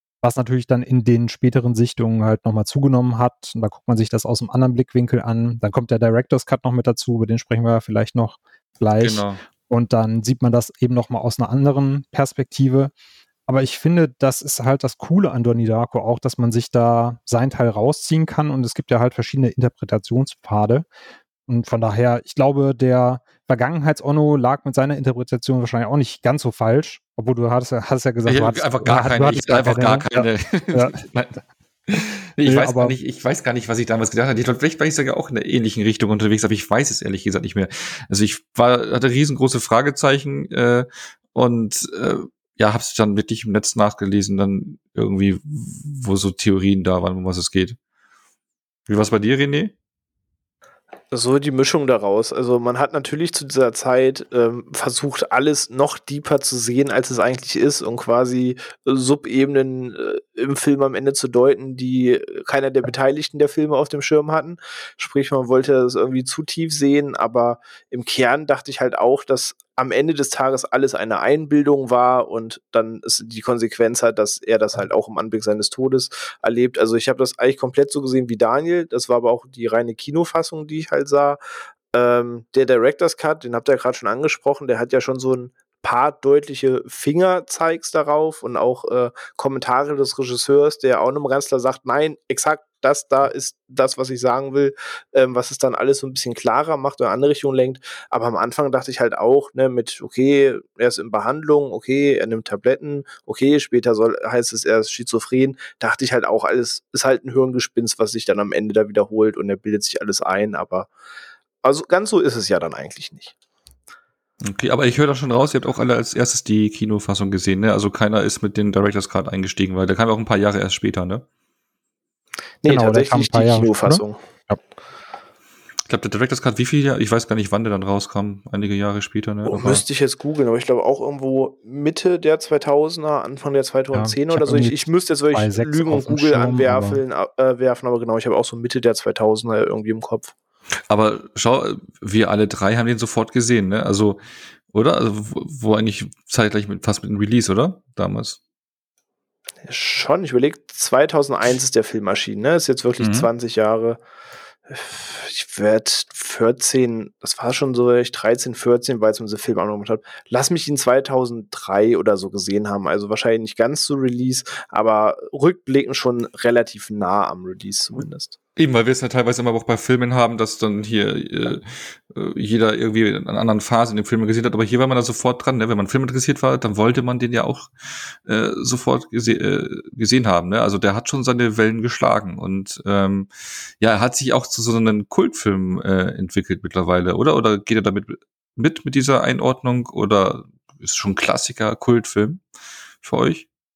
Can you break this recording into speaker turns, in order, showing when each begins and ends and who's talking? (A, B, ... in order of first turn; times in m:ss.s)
0:00.2-0:12.9 A
0:09.0-0:09.4 B
0:13.5-0:20.9 A
0:21.5-0:31.0 A
0:28.3-0:31.4 B
0:31.9-0:47.8 B
0:32.4-0:33.0 A
0:48.9-0:49.7 B
0:51.1-1:21.4 C
1:21.9-1:50.9 C
1:51.6-1:53.3 C
1:54.4-2:01.2 B
2:02.6-2:04.2 C
2:02.7-2:04.6 A
2:05.9-2:09.8 B
2:09.4-2:20.3 C
2:13.9-2:17.0 A
2:20.9-2:24.2 B
2:24.7-2:28.4 B
2:29.6-2:34.0 C
2:33.0-2:33.3 B
2:34.7-2:48.4 C
2:48.6-3:03.3 B
3:03.8-3:12.4 B
3:13.0-3:13.5 B